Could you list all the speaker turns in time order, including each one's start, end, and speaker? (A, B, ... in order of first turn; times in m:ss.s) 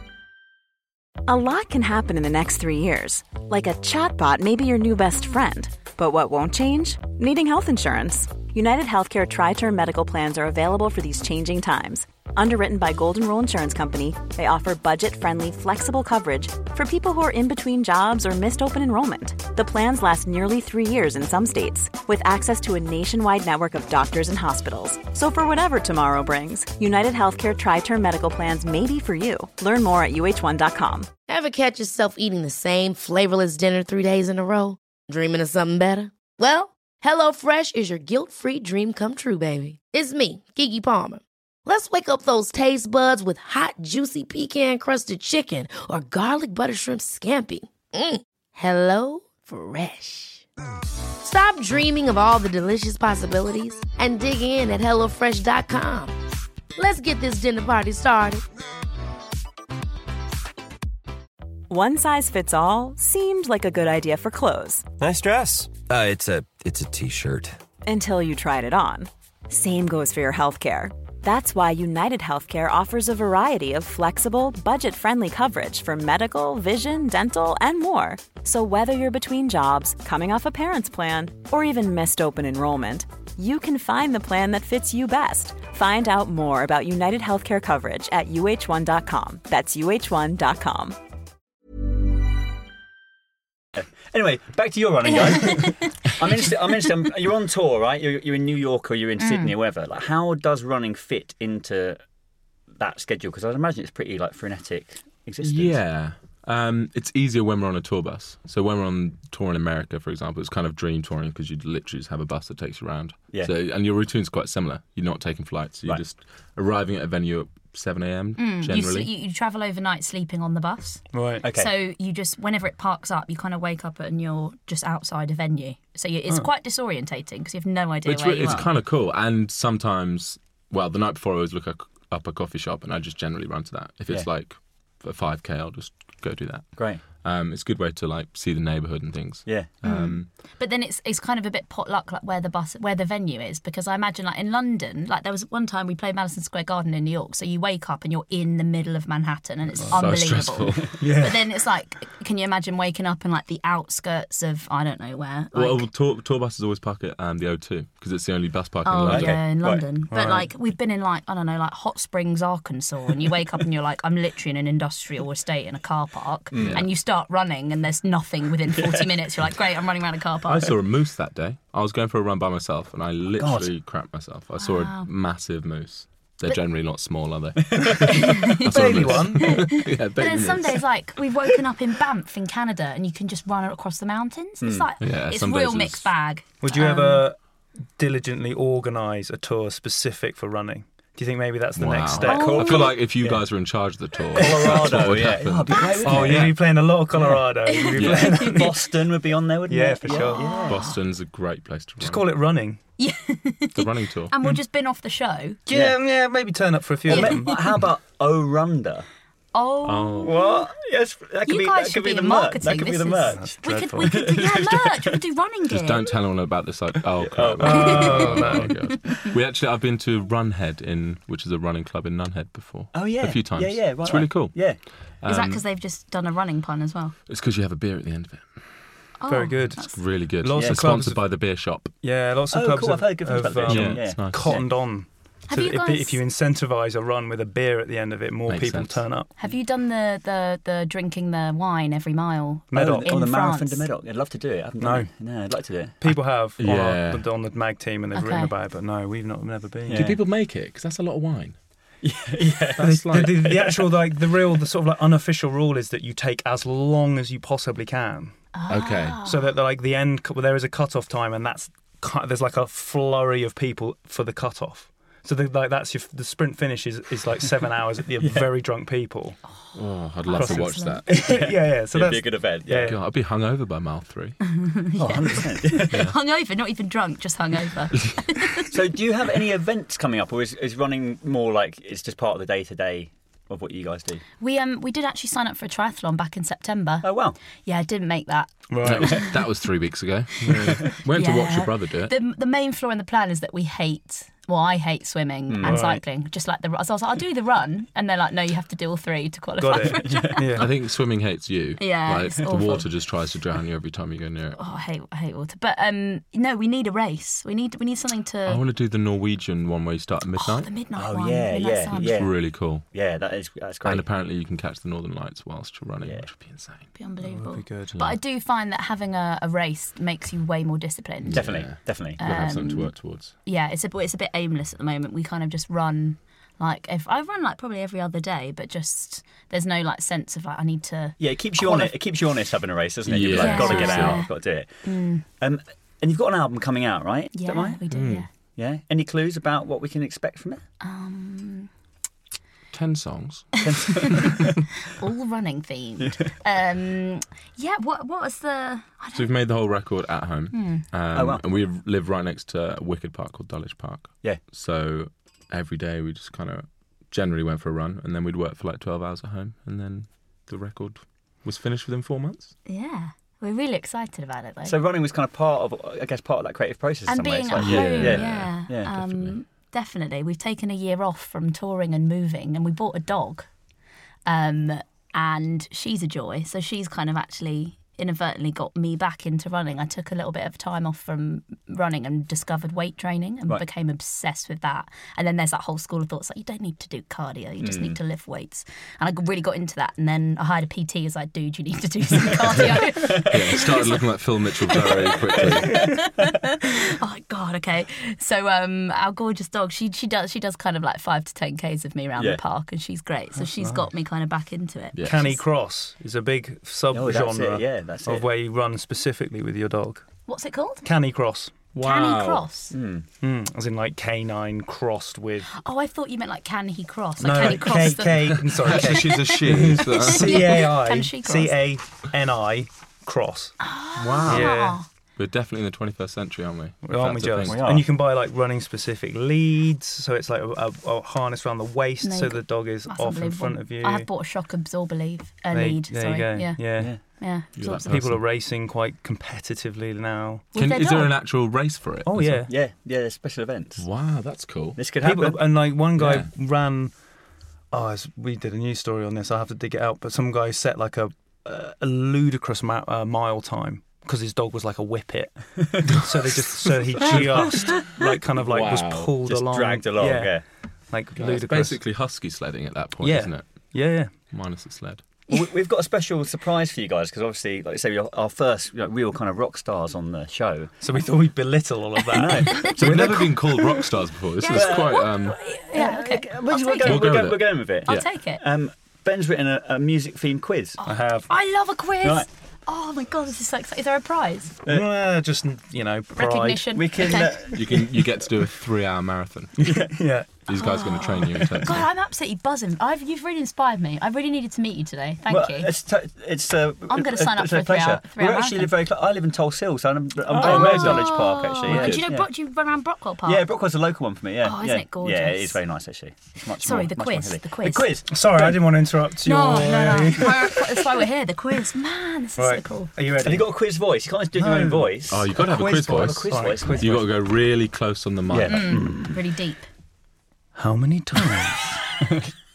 0:01.3-0:31.1 A
0:31.3-0:50.4 B
0:51.2-0:56.2 B
0:56.8-0:58.4 B
1:01.7-1:04.9 A
1:05.0-1:07.6 C
1:07.8-1:31.0 A
1:33.8-1:42.0 D
1:35.4-1:36.1 E
1:39.2-1:39.5 E
1:42.7-1:45.8 D
1:45.4-1:59.1 F
1:58.4-2:08.6 E
2:01.1-2:01.4 G
2:01.4-2:01.7 D
2:08.0-2:20.3 F
2:08.4-2:08.7 D
2:16.8-2:17.0 D
2:19.5-2:19.8 D
2:19.8-2:35.8 E
2:29.9-2:30.9 F
2:31.0-2:31.4 G
2:35.5-2:39.4 F
2:38.8-2:50.7 E
2:39.0-2:39.9 D
2:40.1-2:40.5 G
2:46.5-2:46.9 D
2:46.6-2:46.9 F
2:48.8-2:49.1 D
2:50.5-3:00.8 F
2:53.4-2:53.7 D
2:54.6-2:55.1 E
2:57.7-2:58.1 D
2:58.2-3:07.2 E
2:58.7-2:59.7 G
3:04.6-3:04.9 D
3:05.0-3:06.1 F
3:06.6-3:12.8 G
3:11.8-3:16.6 F
3:12.2-3:13.5 D
3:12.2-3:13.0 E
3:14.3-3:16.6 D
3:14.5-3:15.1 G
3:16.0-3:18.9 G
3:17.7-3:18.6 E
3:18.0-3:18.4 F
3:18.0-3:20.8 D
3:19.7-3:20.6 G
3:20.1-3:20.9 E
3:20.7-3:22.3 F
3:22.0-3:22.8 G
3:23.0-3:25.6 E
3:23.8-3:24.3 F
3:25.7-3:27.6 G
3:25.7-3:26.0 D
3:27.1-3:29.1 D
3:27.1-3:27.6 E
3:29.5-3:30.7 E
3:29.8-3:30.3 G
3:30.2-3:35.2 D
3:31.5-3:36.1 E
3:33.3-3:34.2 G
3:35.7-3:45.6 F
3:37.2-3:38.7 D
3:37.6-3:38.8 G
3:37.8-3:38.8 E
3:42.9-3:44.8 D
3:45.2-3:47.2 E
3:47.3-3:48.9 F
3:49.2-3:50.0 E
3:49.3-3:51.4 G
3:49.8-3:52.0 F
3:50.6-3:50.9 D
3:52.0-3:59.3 G
3:52.5-3:54.8 D
3:53.7-3:54.6 F
3:55.5-3:56.2 E
3:58.5-3:59.1 F
3:59.4-4:03.9 E
4:02.7-4:03.1 G
4:02.7-4:06.0 D
4:04.8-4:05.1 G
4:06.0-4:10.2 G
4:06.1-4:07.3 F
4:08.1-4:08.5 E
4:09.9-4:10.2 D
4:09.9-4:11.6 F
4:12.0-4:13.9 D
4:12.8-4:13.7 F
4:12.8-4:18.4 G
4:18.5-4:19.5 E
4:18.7-4:19.2 F
4:19.2-4:29.4 G
4:29.7-4:31.1 F
4:30.2-4:31.0 E
4:30.4-4:33.0 G
4:31.1-4:33.0 D
4:32.9-4:34.4 F
4:34.5-4:38.7 E
4:35.0-4:36.1 D
4:38.7-4:44.2 D
4:44.4-4:49.1 E
4:47.0-4:47.4 D
4:48.7-4:49.4 G
4:48.8-4:52.1 F
4:50.4-4:50.8 G
4:50.5-5:00.5 E
4:55.5-4:55.9 D
4:55.6-4:56.0 G
4:59.6-5:00.7 G
4:59.9-5:00.4 D
5:00.6-5:04.6 F
5:01.8-5:02.9 E
5:04.6-5:08.6 E
5:08.5-5:10.7 F
5:10.4-5:12.2 E
5:11.0-5:14.1 D
5:11.9-5:12.8 F
5:13.8-5:16.9 F
5:16.0-5:16.3 D
5:17.0-5:31.9 E
5:17.2-5:18.1 G
5:21.2-5:23.3 F
5:21.3-5:22.2 D
5:31.2-5:37.8 D
5:33.1-5:34.2 F
5:33.4-5:35.2 E
5:37.3-5:38.3 E
5:37.9-5:38.3 F
5:38.6-5:40.6 D
5:40.8-5:41.7 E
5:42.7-5:43.5 F
5:43.6-5:44.6 D
5:44.9-5:49.3 E
5:46.0-5:46.3 D
5:49.1-6:02.6 F
5:50.5-5:50.8 E
5:51.1-5:51.4 D
6:02.7-6:04.8 E
6:04.6-6:08.9 D
6:07.1-6:13.5 E
6:07.6-6:09.4 F
6:14.3-6:34.0 E
6:27.6-6:28.0 D
6:32.9-6:35.9 F
6:34.6-6:45.4 E
6:43.4-6:43.9 G
6:45.0-6:45.3 F
6:45.0-6:50.1 G
6:46.9-6:48.3 D
6:50.3-6:50.9 E
6:50.8-6:51.5 G
6:51.8-6:52.5 F
6:51.8-6:52.8 E
6:52.7-6:53.1 D
6:53.2-6:55.5 G
6:55.5-7:01.6 E
6:57.2-7:03.6 G
6:58.4-7:00.7 F
7:03.6-7:04.9 E
7:04.0-7:07.7 F
7:04.2-7:04.8 G
7:06.8-7:14.1 G
7:07.4-7:07.9 D
7:12.0-7:17.9 E
7:15.5-7:20.5 G
7:17.6-7:18.2 F
7:20.5-7:21.1 E
7:20.6-7:22.5 F
7:22.0-7:22.5 G
7:22.5-7:23.9 D
7:23.8-7:24.8 F
7:24.8-7:25.5 D
7:25.0-7:27.0 G
7:26.0-7:26.3 F
7:27.7-7:41.8 G
7:37.0-7:37.8 F
7:38.4-7:39.1 F
7:39.2-7:40.4 D
7:41.2-7:45.1 F
7:43.0-7:44.2 G
7:45.3-7:50.7 D
7:50.8-7:53.8 G
7:52.1-7:53.1 D
7:52.6-7:55.4 F
7:54.4-7:57.3 E
7:54.5-8:00.8 D
7:56.8-7:58.1 F
7:57.8-7:58.4 E
8:00.8-8:04.6 E
8:00.8-8:01.3 G
8:02.0-8:02.3 D
8:04.7-8:06.8 G
8:06.2-8:07.4 E
8:06.8-8:08.0 D
8:07.5-8:09.7 F
8:09.6-8:10.4 G
8:10.5-8:11.9 F
8:10.6-8:15.7 E
8:15.3-8:22.3 D
8:16.9-8:18.7 E
8:20.3-8:20.9 G
8:20.3-8:23.4 E
8:20.5-8:21.0 F
8:21.6-8:22.1 F
8:23.2-8:28.6 D
8:24.4-8:25.6 E
8:26.6-8:27.9 E
8:28.1-8:30.6 G
8:29.2-8:32.9 E
8:32.4-8:33.5 G
8:33.2-8:37.0 D
8:34.4-8:37.1 G
8:35.1-8:38.7 F
8:38.3-8:39.1 D
8:38.5-8:39.7 E
8:40.6-8:42.2 G